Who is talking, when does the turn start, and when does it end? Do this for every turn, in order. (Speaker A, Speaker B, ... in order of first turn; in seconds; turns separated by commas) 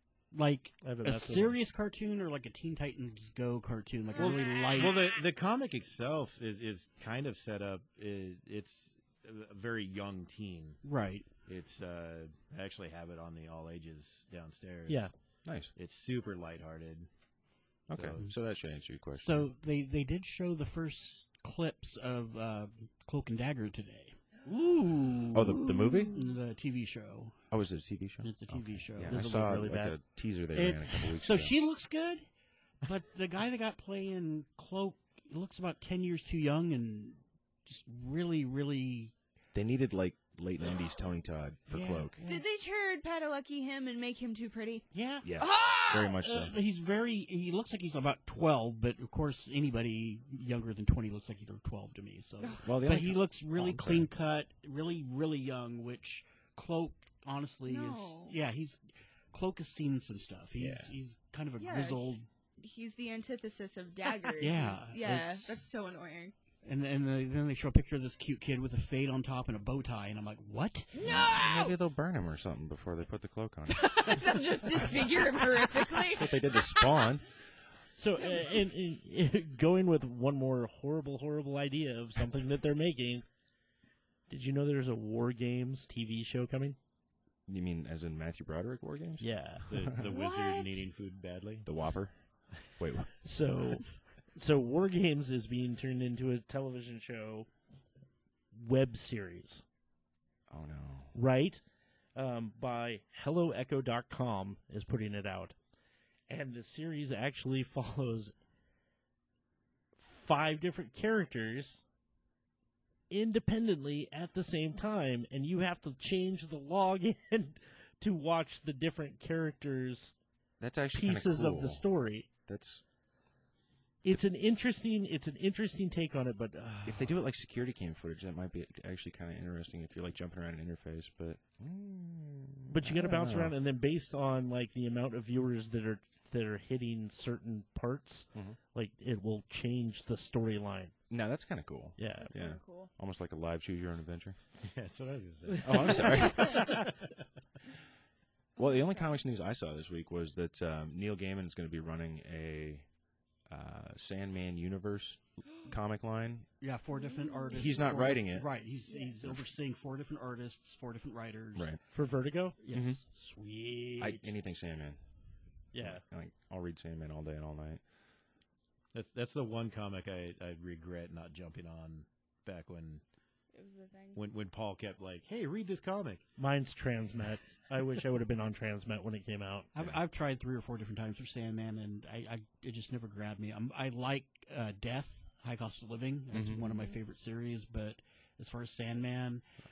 Speaker A: 0.3-5.0, Speaker B: 0.8-1.6, Speaker C: 4.2-4.9, Speaker D: 4.3-10.8, Speaker A: 10.8-11.3, Speaker D: 11.5-15.1, Speaker E: 15.4-15.7, Speaker D: 15.8-17.1, Speaker E: 17.9-19.5, Speaker D: 17.9-18.3, Speaker A: 19.2-24.2, Speaker B: 24.5-25.3, Speaker A: 24.8-27.4, Speaker E: 25.3-26.1, Speaker C: 25.5-26.2, Speaker E: 27.5-31.5, Speaker A: 28.2-29.2, Speaker B: 29.1-30.0, Speaker A: 30.5-32.3, Speaker A: 32.8-39.1, Speaker E: 39.5-42.2, Speaker A: 41.7-42.4, Speaker C: 42.2-46.2, Speaker A: 44.9-45.3, Speaker E: 45.2-46.5, Speaker A: 46.2-62.3, Speaker E: 52.6-54.1, Speaker C: 57.7-58.4, Speaker E: 60.6-60.9, Speaker C: 61.6-66.3, Speaker A: 64.4-65.7, Speaker A: 66.6-71.1, Speaker C: 70.9-71.8, Speaker E: 71.0-75.0, Speaker C: 73.7-77.1, Speaker E: 75.8-77.3, Speaker B: 78.0-83.2, Speaker B: 84.3-86.8, Speaker E: 87.5-90.1, Speaker B: 89.2-89.7, Speaker D: 89.7-91.7, Speaker C: 90.0-90.8, Speaker E: 91.7-93.2, Speaker B: 93.2-97.5, Speaker B: 98.5-99.6, Speaker E: 100.5-101.2, Speaker B: 101.1-101.6, Speaker B: 102.2-105.5, Speaker B: 106.3-108.3, Speaker B: 110.0-111.8, Speaker B: 113.1-120.2, Speaker E: 120.6-121.9, Speaker B: 120.9-122.3, Speaker E: 122.5-122.8, Speaker B: 124.0-127.2, Speaker E: 126.8-133.6, Speaker B: 132.7-140.9, Speaker E: 141.1-144.4, Speaker B: 142.0-142.3, Speaker C: 142.2-142.9, Speaker D: 144.7-147.2, Speaker B: 145.5-146.8, Speaker E: 145.6-146.8, Speaker C: 146.3-146.6, Speaker E: 148.6-152.9, Speaker C: 148.6-149.1, Speaker E: 153.4-156.5, Speaker A: 156.6-161.7, Speaker C: 156.9-157.9, Speaker E: 157.6-158.5, Speaker C: 158.9-159.2, Speaker E: 161.6-161.8, Speaker B: 161.9-164.3, Speaker A: 162.7-162.9, Speaker E: 162.7-163.0, Speaker E: 164.0-165.0, Speaker B: 165.7-166.0, Speaker E: 165.8-167.8, Speaker D: 168.9-173.0, Speaker C: 173.5-174.2, Speaker D: 174.1-176.2, Speaker B: 176.4-179.7, Speaker A: 179.7-189.4, Speaker E: 186.3-186.6, Speaker C: 186.7-187.0